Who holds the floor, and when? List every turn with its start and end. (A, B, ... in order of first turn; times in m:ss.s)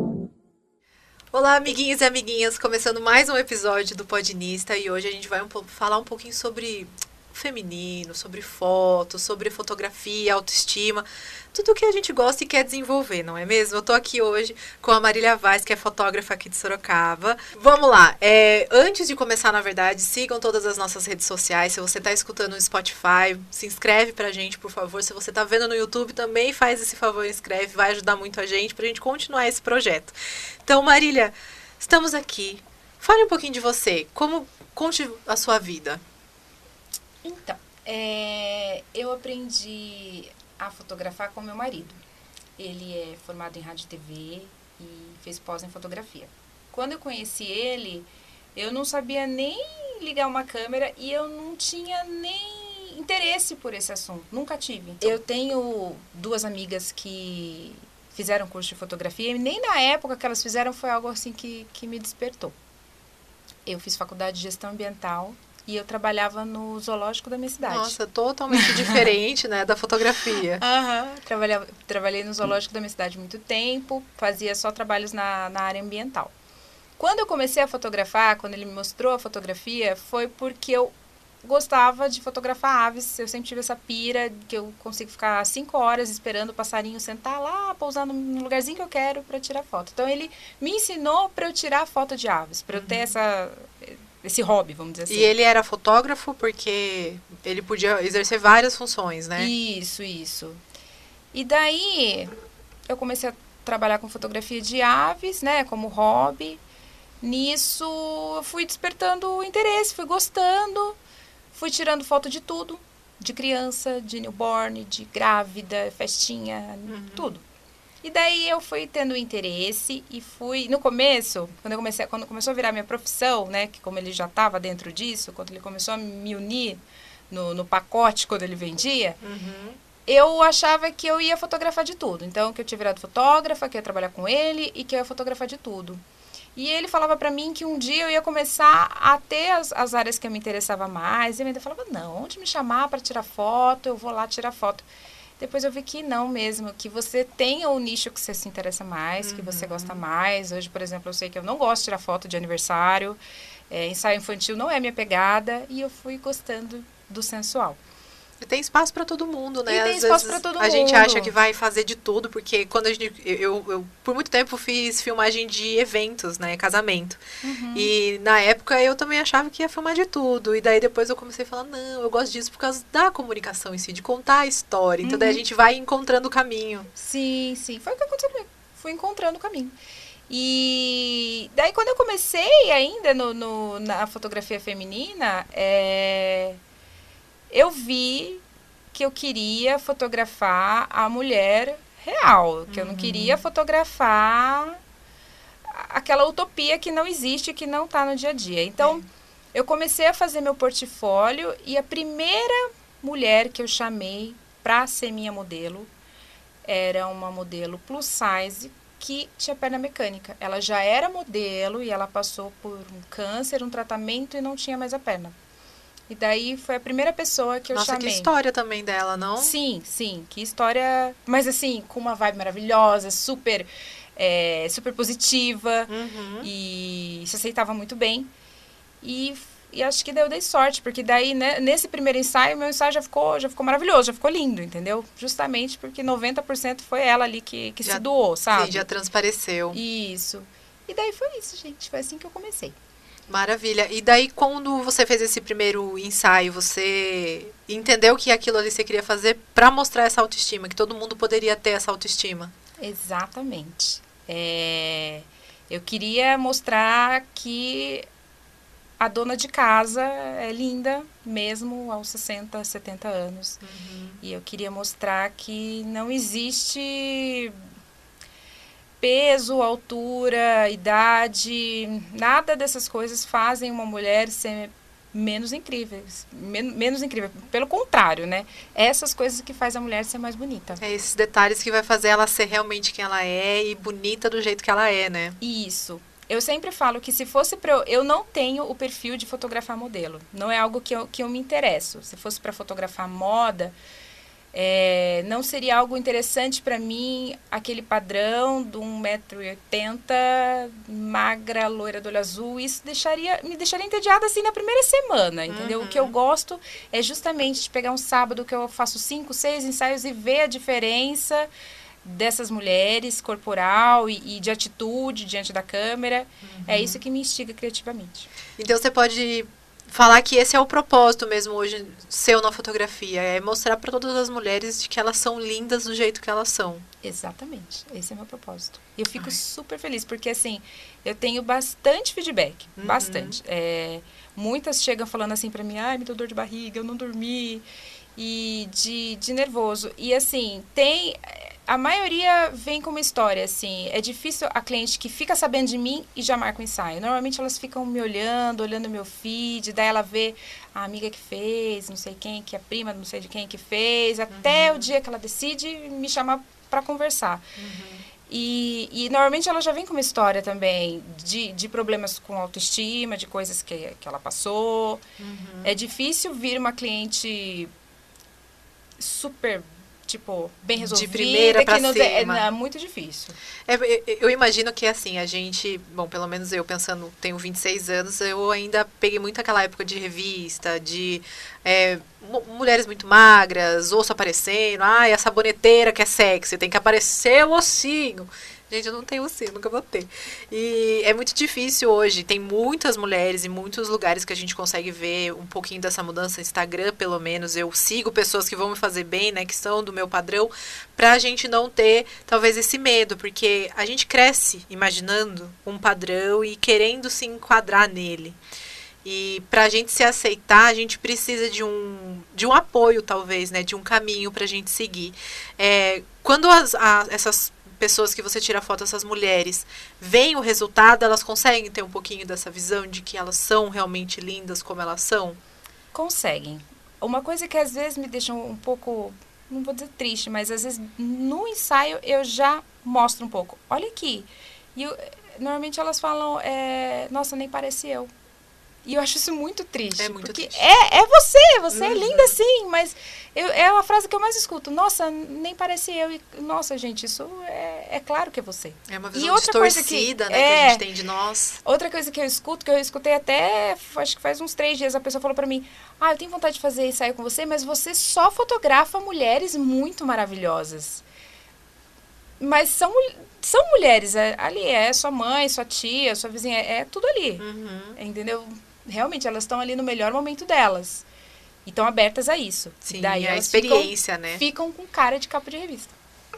0:01.3-0:36.0 A
0:37.2-0:42.0 B
0:42.6-1:02.6 B
1:03.7-1:08.0 B
1:07.6-1:10.6 A
1:08.5-1:09.1 B
1:10.6-1:16.3 B
1:17.0-1:35.3 B
1:32.7-1:33.0 A
1:35.1-1:39.5 A
1:39.4-1:40.6 B
1:41.3-1:42.3 B
1:42.9-1:46.6 B
1:47.2-1:51.0 B
1:51.5-1:57.4 B
1:56.9-1:57.3 A
1:58.0-2:09.2 B
2:09.2-2:09.8 A
2:10.1-2:16.0 B
2:16.6-2:24.9 B
2:25.4-2:33.2 B
2:29.2-2:30.0 A
2:33.7-2:37.8 B
2:38.4-2:47.2 A
2:39.7-2:41.3 B
2:47.4-2:47.9 B
2:47.7-2:56.9 A
2:55.0-2:55.4 B
2:57.0-2:59.8 B
3:00.3-3:06.6 B
3:07.5-3:14.8 B
3:12.7-3:13.4 A
3:15.7-3:25.9 B
3:26.6-3:35.4 B
3:36.1-3:38.3 B
3:37.7-3:39.5 A
3:39.4-3:48.3 B
3:45.9-3:46.5 A
3:49.0-3:58.9 B
3:57.8-3:59.8 A
3:59.7-4:02.8 B
4:03.3-4:12.5 A
4:12.8-4:18.1 B
4:19.0-4:23.6 B
4:23.6-4:24.2 A
4:24.2-4:27.6 B
4:29.0-4:40.8 B
4:40.8-4:45.4 A
4:45.4-4:53.8 B
4:54.5-5:11.5 B
5:05.5-5:06.2 A
5:12.0-5:18.3 B
5:16.4-5:17.0 A
5:18.6-5:26.9 A
5:27.0-5:37.6 B
5:32.8-5:33.4 A
5:38.2-5:57.4 B
5:54.3-5:54.9 A
5:57.6-5:58.0 A
5:58.3-6:05.0 B
6:05.2-6:05.7 A
6:05.6-6:07.7 B
6:09.0-6:13.4 B
6:10.8-6:12.4 A
6:13.7-6:48.4 A
6:49.0-7:05.4 A
7:05.9-7:18.1 B
7:18.8-7:30.8 B
7:20.0-7:20.7 A
7:21.7-7:22.4 A
7:28.9-7:31.6 A
7:31.6-7:41.0 B
7:42.4-7:51.0 B
7:47.4-7:48.0 A
7:51.7-7:56.0 B
7:52.9-7:54.4 A